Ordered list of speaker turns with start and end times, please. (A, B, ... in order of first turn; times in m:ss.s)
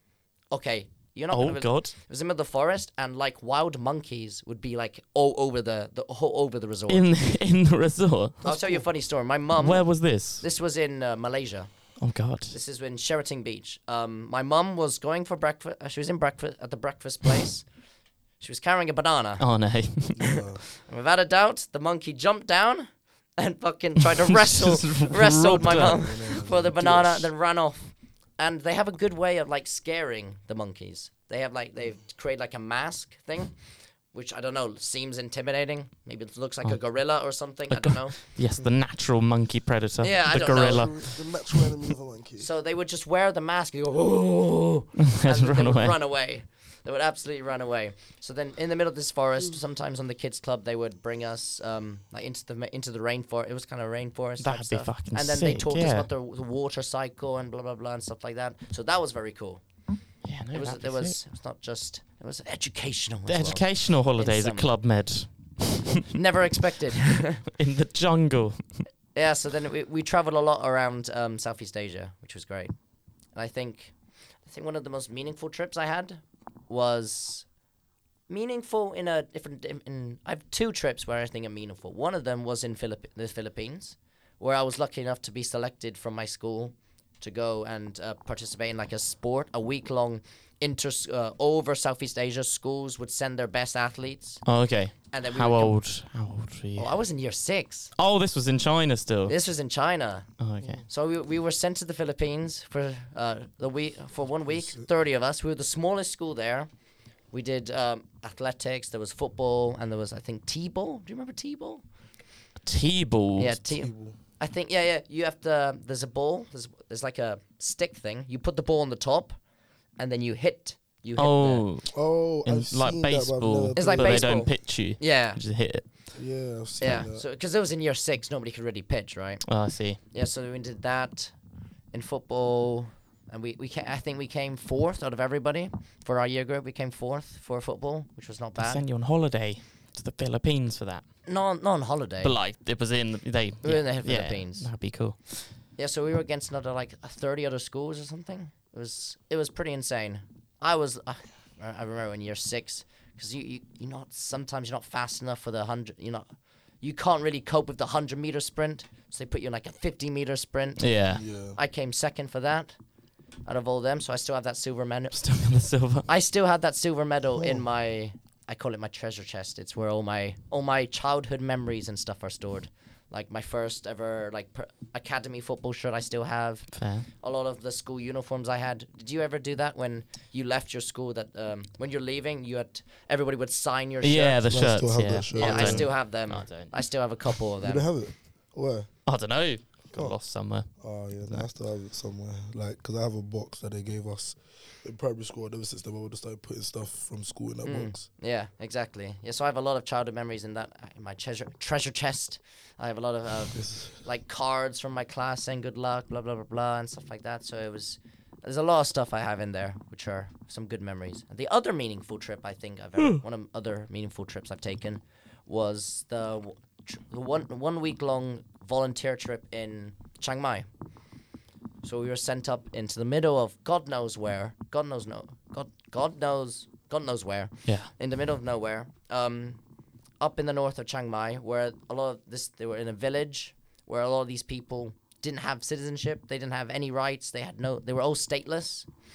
0:00.5-0:07.1 A
0:01.3-0:01.9 B
0:06.9-0:08.4 B
0:08.4-0:08.8 C
0:08.4-0:17.7 A
0:09.6-0:10.4 B
0:12.0-0:12.5 B
0:18.4-0:19.5 A
0:19.4-0:20.4 B
0:20.2-0:20.6 C
0:20.6-0:33.5 A
0:24.3-0:26.3 B
0:25.6-0:27.3 C
0:34.1-0:38.2 A
0:36.6-0:41.7 B
0:40.0-0:40.9 A
0:40.4-0:42.5 C
0:42.4-0:59.6 A
0:45.0-0:45.9 B
0:54.4-0:56.1 B
1:00.2-1:01.2 B
1:00.5-1:04.7 A
1:03.3-1:06.0 B
1:06.1-1:07.4 A
1:07.3-1:08.9 B
1:09.1-1:12.7 A
1:13.3-1:17.4 A
1:18.3-1:34.4 A
1:34.4-1:36.9 B
1:35.1-1:35.8 A
1:36.8-1:37.9 A
1:38.0-1:39.3 B
1:39.3-1:40.3 A
1:40.4-1:40.8 B
1:40.6-1:40.8 C
1:40.8-1:46.7 A
1:44.5-1:44.9 C
1:47.3-1:51.8 A
1:52.6-1:53.6 B
1:53.4-1:59.4 A
1:53.6-1:54.2 C
2:00.0-2:01.6 A
2:01.2-2:05.8 B
2:01.9-2:04.4 C
2:03.8-2:05.4 A
2:06.1-2:07.2 C
2:06.8-2:09.5 A
2:09.4-2:10.0 B
2:10.0-2:11.3 A
2:11.9-2:18.8 A
2:18.6-2:21.1 B
2:21.2-2:22.3 A
2:22.2-2:25.5 B
2:23.6-2:24.7 A
2:25.8-2:36.3 A
2:36.8-2:42.8 A
2:40.8-2:41.2 B
2:41.1-2:41.6 C
2:43.4-2:45.2 A
2:45.1-2:46.1 B
2:46.0-3:04.4 A
2:47.4-2:47.6 C
2:56.7-2:57.1 B
3:04.0-3:07.4 B
3:04.5-3:05.9 C
3:05.3-3:07.9 A
3:07.6-3:09.1 C
3:09.0-3:11.5 B
3:09.9-3:18.0 C
3:17.6-3:40.7 A
3:23.5-3:23.9 C
3:41.8-3:49.6 A
3:47.6-3:47.9 B
3:50.2-3:58.9 A